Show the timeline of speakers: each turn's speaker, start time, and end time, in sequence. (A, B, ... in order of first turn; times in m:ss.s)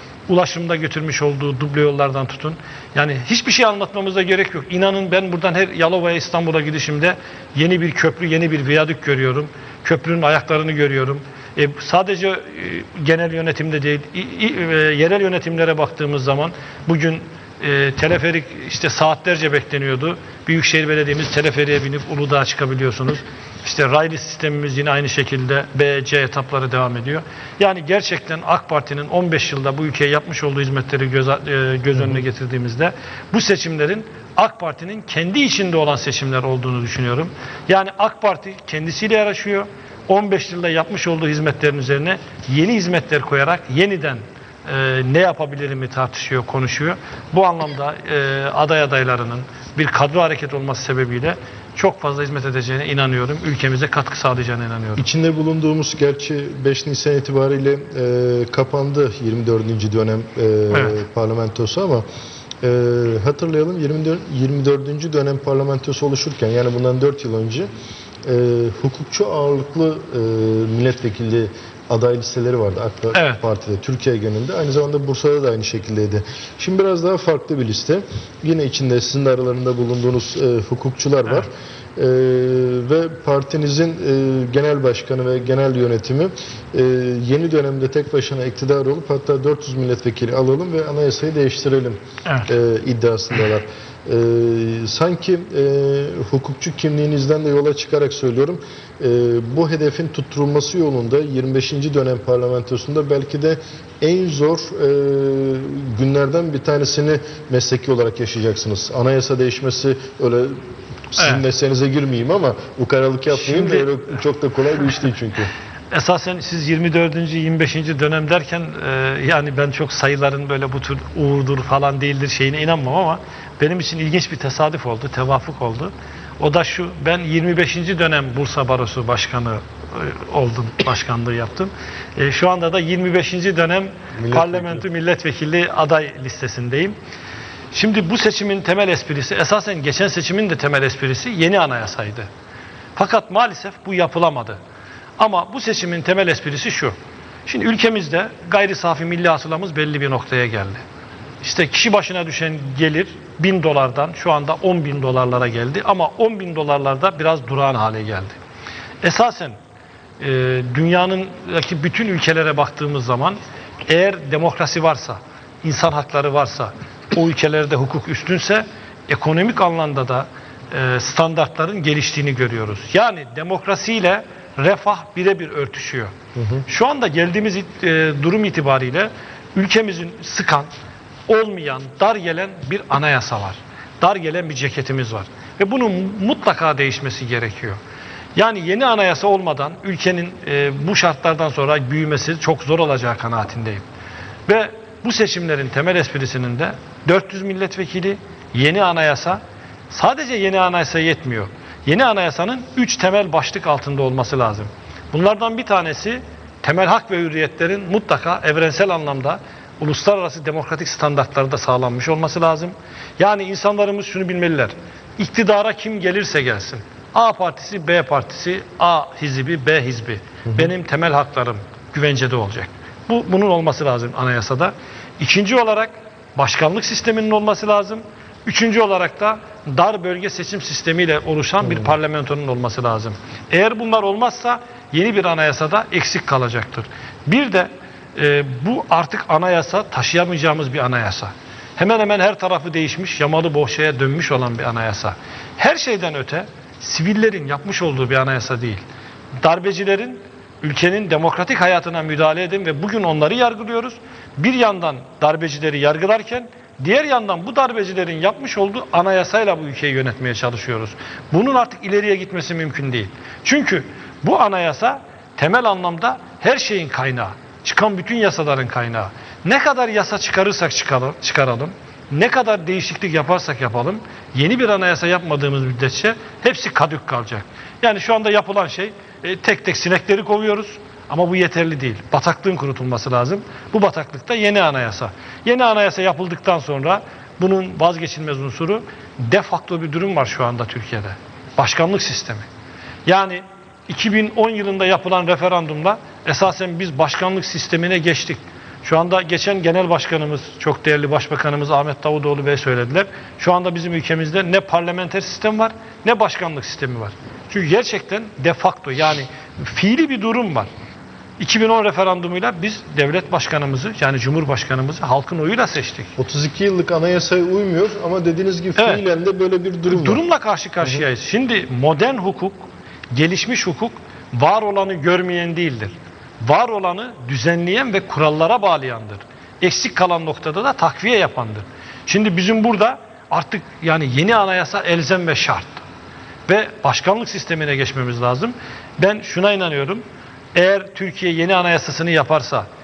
0:00.3-0:55.0 A
0:55.0-1:02.0 B
1:00.7-1:01.0 A
1:02.6-1:07.7 B
1:08.2-1:50.6 B
1:13.1-1:13.4 A
1:32.2-1:32.5 A
1:51.1-1:55.5 B
1:51.2-1:51.4 A
1:53.3-1:53.9 A
1:55.9-2:17.0 A
2:14.2-2:14.8 B
2:17.7-2:22.3 A
2:23.0-2:24.6 A
2:25.2-2:30.8 A
2:31.4-2:38.4 A
2:39.0-2:39.6 A
2:40.2-2:56.1 A
2:56.4-2:56.6 B
2:56.7-3:00.7 A
3:01.3-3:07.8 A
3:08.4-3:13.8 A
3:14.5-4:08.8 A
4:09.4-4:52.5 A
4:53.0-5:10.7 A
5:11.4-5:16.1 A
5:16.2-5:20.2 B
5:18.8-5:19.0 A
5:19.9-5:35.8 A
5:36.5-5:42.7 A